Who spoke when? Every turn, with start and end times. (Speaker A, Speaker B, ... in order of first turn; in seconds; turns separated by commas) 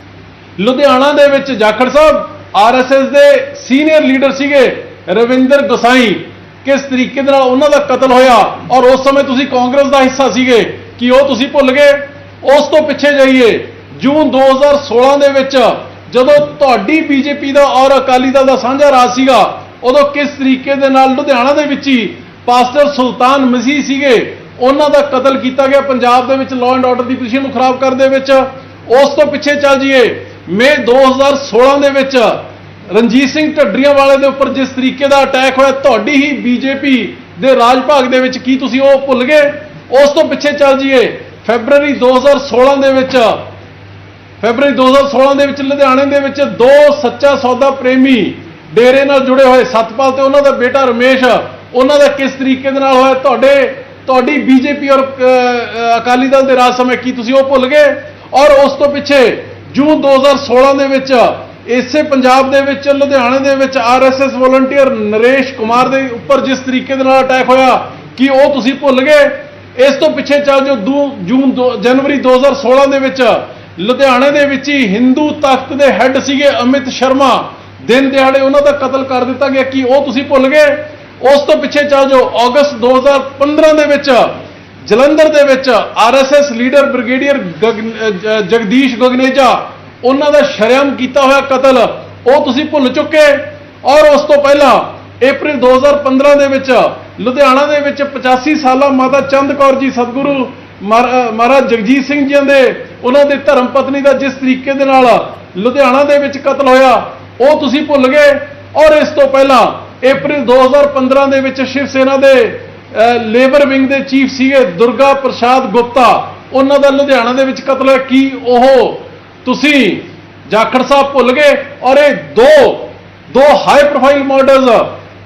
Speaker A: 0.6-43.4, Speaker A: 44.4-124.9